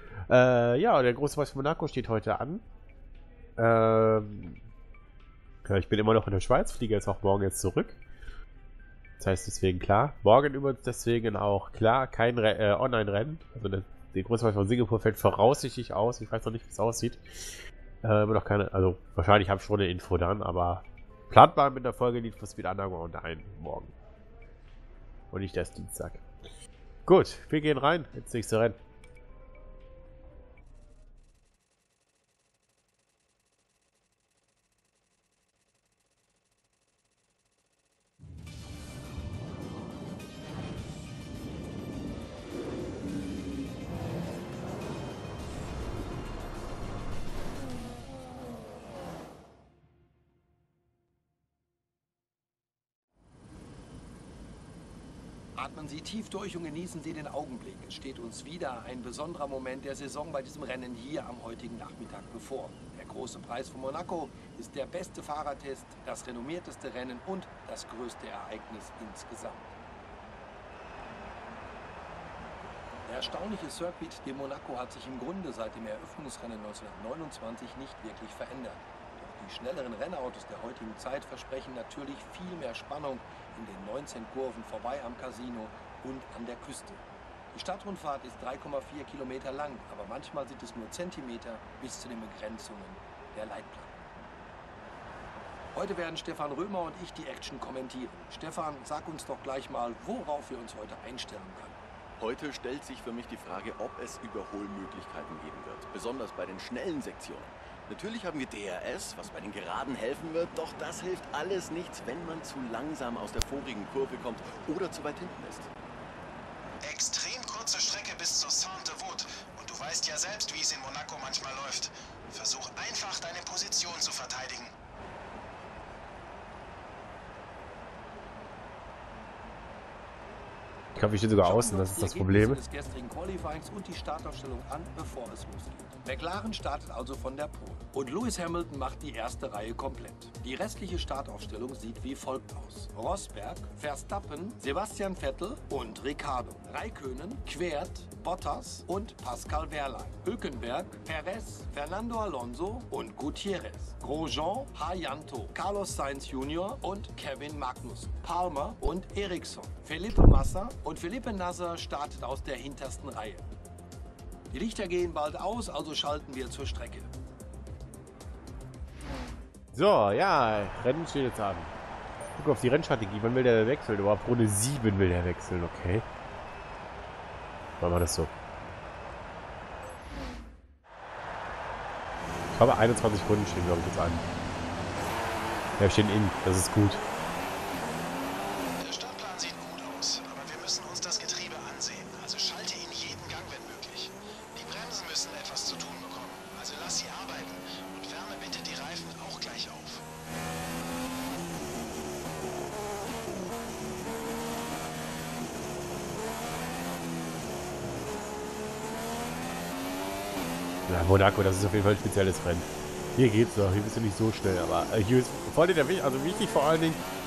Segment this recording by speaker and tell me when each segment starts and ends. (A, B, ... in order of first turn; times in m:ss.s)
0:00.3-0:02.6 A
0:03.6-0:04.6 A
0:05.6-0:08.0 A
0:09.2-0:23.9 A
0:25.3-0:26.2 A
0:27.0-0:28.8 A
0:55.6-1:09.7 B
1:13.1-1:27.0 B
1:27.5-1:34.1 B
1:35.7-1:41.8 B
1:42.2-1:55.7 C
1:56.8-2:04.7 D
2:10.9-2:12.6 A
2:11.4-2:43.5 B
2:44.5-2:47.1 B
2:49.7-2:51.7 A
2:52.4-2:56.0 A
2:57.8-2:58.3 A
3:02.5-3:04.2 A
3:05.8-3:07.0 A
3:08.8-3:20.0 D
3:30.9-3:37.0 A